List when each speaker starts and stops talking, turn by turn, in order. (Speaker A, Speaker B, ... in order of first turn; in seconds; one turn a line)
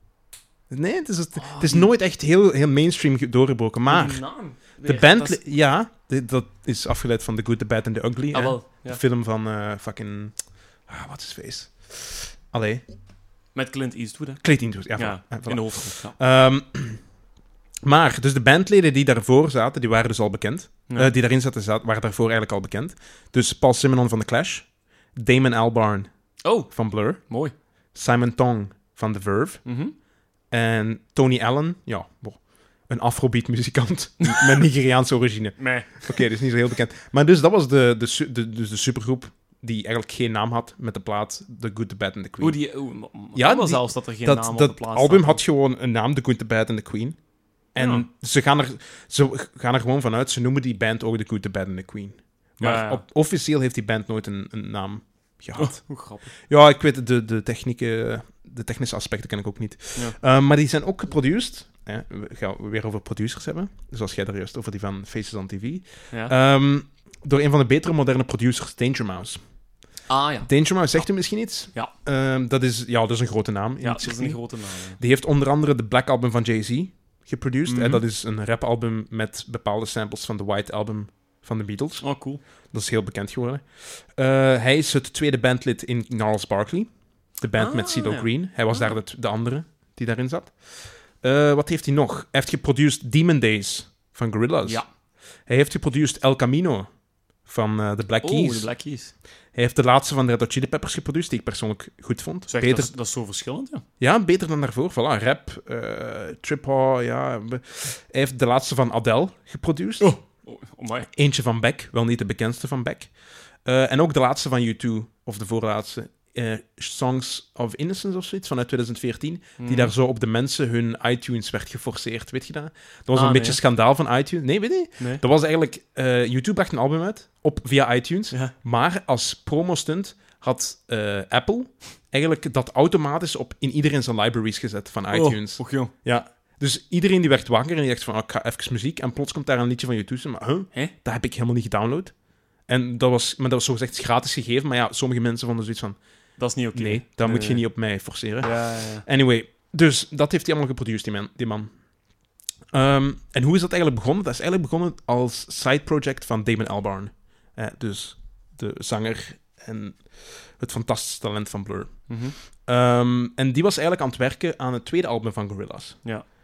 Speaker A: 0.7-4.2
Speaker B: 1.4-1.9
Speaker B: 3.9-5.4
Speaker A: 4.8-12.8
Speaker B: 8.3-9.0
Speaker B: 13.6-14.4
Speaker A: 14.4-17.0
Speaker B: 14.9-16.1
Speaker A: 17.8-26.1
Speaker B: 26.4-27.5
Speaker A: 26.7-27.2
Speaker A: 27.9-29.6
Speaker B: 29.6-29.9
Speaker A: 30.5-42.6
Speaker B: 34.2-34.5
Speaker B: 35.6-36.2
Speaker B: 42.4-45.4
Speaker A: 43.4-47.2
Speaker A: 47.8-69.4
Speaker B: 47.8-48.1
Speaker B: 52.6-53.0
Speaker B: 55.6-56.3
Speaker B: 70.1-71.1
Speaker A: 70.5-74.4
Speaker B: 73.8-75.0
Speaker A: 75.0-82.0
Speaker B: 77.7-78.0
Speaker B: 82.0-82.4
Speaker A: 82.7-86.9
Speaker A: 87.4-94.8
Speaker B: 87.5-89.0
Speaker A: 95.5-96.9
Speaker A: 97.5-98.7
Speaker B: 98.2-99.1
Speaker A: 99.5-102.9
Speaker B: 102.5-103.8
Speaker A: 104.0-110.1
Speaker B: 110.0-111.1
Speaker A: 111.1-113.1
Speaker A: 113.7-142.1
Speaker B: 119.6-119.9
Speaker B: 123.1-123.6
Speaker B: 135.1-135.9
Speaker A: 142.7-146.0
Speaker B: 146.4-147.6
Speaker A: 146.8-151.7
Speaker B: 148.4-149.0
Speaker A: 152.7-166.0
Speaker B: 162.1-162.4